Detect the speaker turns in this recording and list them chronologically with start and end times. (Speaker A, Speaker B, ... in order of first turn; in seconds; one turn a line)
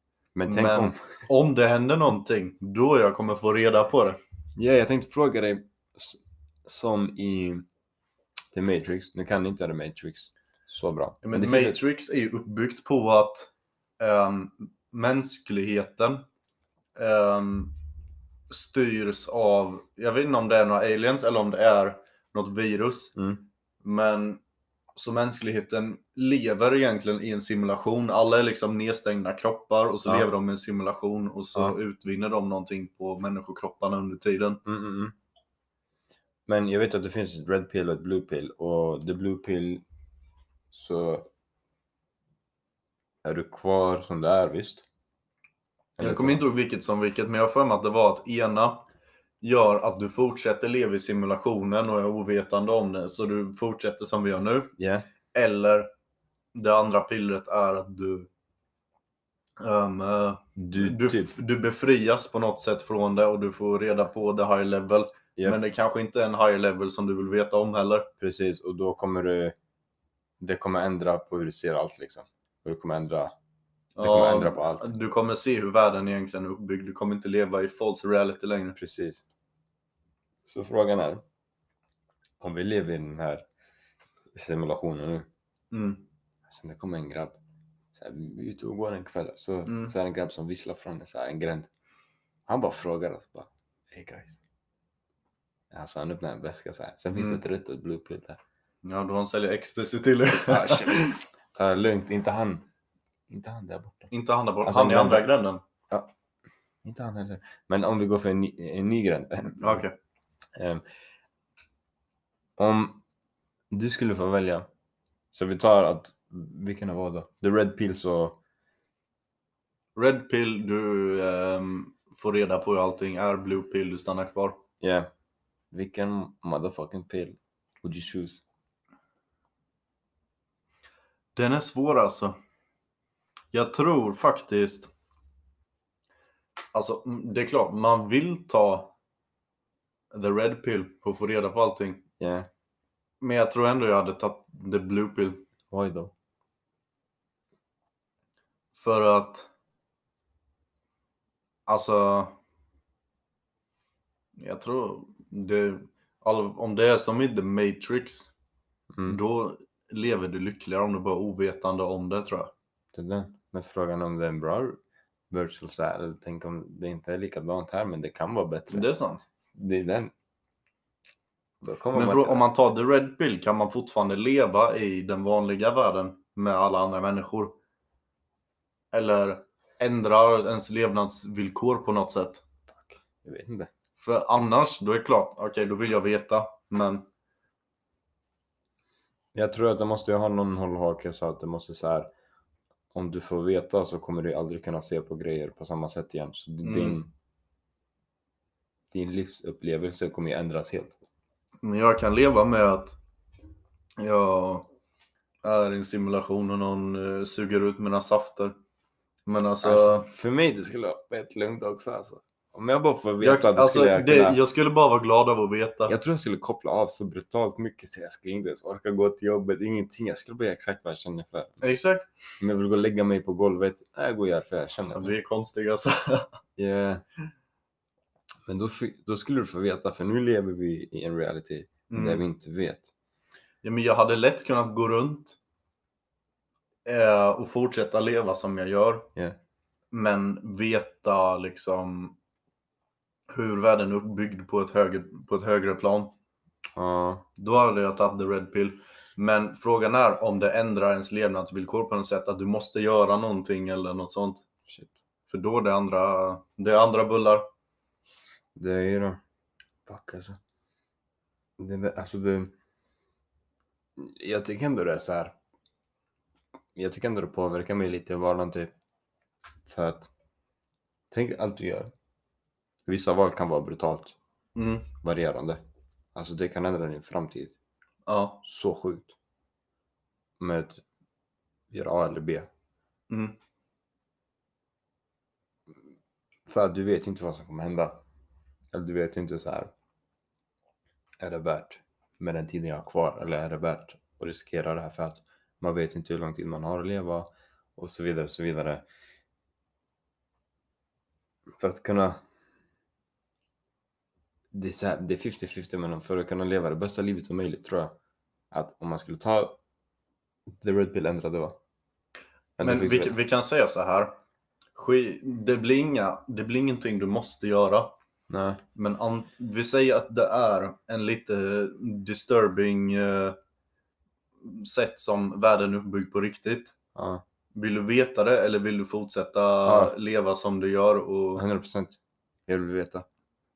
Speaker A: 0.3-1.2
Speaker B: 0.5-4.2
Speaker A: 4.6-7.7
Speaker A: 8.5-11.8
Speaker B: 11.2-16.2
Speaker B: 16.9-17.7
Speaker B: 18.5-23.1
Speaker A: 23.1-23.4
Speaker B: 23.8-24.4
Speaker B: 24.9-34.6
Speaker A: 34.6-35.1
Speaker A: 36.5-39.8
Speaker A: 40.7-41.3
Speaker A: 43.2-44.8
Speaker A: 46.0-46.4
Speaker B: 46.0-48.9
Speaker B: 49.4-54.7
Speaker A: 54.8-55.0
Speaker B: 55.3-55.9
Speaker B: 56.5-58.3
Speaker B: 59.6-68.1
Speaker A: 60.5-61.4
Speaker A: 68.2-69.5
Speaker A: 70.4-73.3
Speaker B: 74.0-78.8
Speaker A: 74.0-74.9
Speaker A: 78.8-79.2
Speaker A: 80.5-81.2
Speaker A: 82.4-83.4
Speaker A: 84.3-85.3
Speaker B: 85.7-86.0
Speaker A: 86.5-87.4
Speaker A: 87.9-91.7
Speaker B: 89.7-89.9
Speaker A: 92.5-94.4
Speaker A: 95.7-98.4
Speaker B: 97.2-97.4
Speaker B: 98.8-101.2
Speaker A: 100.5-102.7
Speaker A: 103.3-104.1
Speaker B: 104.1-105.6
Speaker A: 104.6-105.3
Speaker A: 106.8-109.8
Speaker B: 109.5-109.9
Speaker A: 110.5-110.8
Speaker A: 112.6-113.0
Speaker A: 113.7-114.7
Speaker A: 115.3-118.4
Speaker B: 120.0-124.6
Speaker A: 124.8-125.1
Speaker A: 125.7-128.4
Speaker B: 131.3-132.3
Speaker B: 133.5-134.9
Speaker B: 136.7-138.9
Speaker B: 140.1-142.0
Speaker A: 142.2-142.5
Speaker B: 143.2-145.4
Speaker A: 145.7-146.1
Speaker B: 148.7-149.5
Speaker B: 151.7-152.3
Speaker B: 154.3-158.3
Speaker A: 158.9-159.2
Speaker B: 159.1-162.5
Speaker A: 162.9-164.8
Speaker A: 165.3-168.9
Speaker B: 168.7-169.3
Speaker A: 169.5-170.1
Speaker A: 171.6-172.4
Speaker B: 171.9-177.6
Speaker B: 178.9-182.4
Speaker A: 182.8-183.7
Speaker B: 184.0-187.1
Speaker A: 189.3-192.1
Speaker A: 192.9-197.1
Speaker B: 196.6-197.0
Speaker A: 198.9-201.0
Speaker B: 201.6-203.0
Speaker B: 204.0-204.7
Speaker B: 205.4-208.5
Speaker B: 209.2-210.1
Speaker A: 209.6-214.4
Speaker B: 213.2-215.9
Speaker A: 215.9-221.6
Speaker B: 221.6-222.1
Speaker A: 222.4-225.1
Speaker B: 224.9-226.3
Speaker A: 226.6-227.0
Speaker A: 228.5-232.9
Speaker B: 231.9-232.2
Speaker B: 233.6-235.4
Speaker B: 236.8-239.1
Speaker B: 239.9-242.2
Speaker B: 243.3-246.1
Speaker A: 246.8-247.2
Speaker B: 247.4-254.4
Speaker A: 254.7-254.9
Speaker B: 255.3-257.4
Speaker A: 258.6-259.2
Speaker A: 259.9-260.4
Speaker A: 261.6-262.5
Speaker A: 264.0-265.3
Speaker A: 266.8-268.7
Speaker A: 269.7-270.1
Speaker A: 271.1-271.9
Speaker A: 272.9-274.1
Speaker B: 274.6-274.9
Speaker A: 275.0-275.6
Speaker A: 276.1-277.5
Speaker B: 278.1-278.4
Speaker A: 278.4-279.1
Speaker A: 280.4-280.8
Speaker A: 281.7-282.5
Speaker B: 283.1-283.4
Speaker A: 286.4-288.0
Speaker A: 288.7-289.7
Speaker A: 291.2-298.8
Speaker A: 301.6-302.2
Speaker A: 304.5-307.9
Speaker A: 308.5-309.6
Speaker A: 310.5-311.6
Speaker A: 312.6-313.1
Speaker B: 312.6-314.2
Speaker B: 314.7-317.9
Speaker A: 318.3-318.6
Speaker B: 318.7-323.4
Speaker B: 324.4-326.7
Speaker A: 326.9-327.2
Speaker B: 327.5-331.4
Speaker A: 329.6-329.9
Speaker A: 331.3-333.1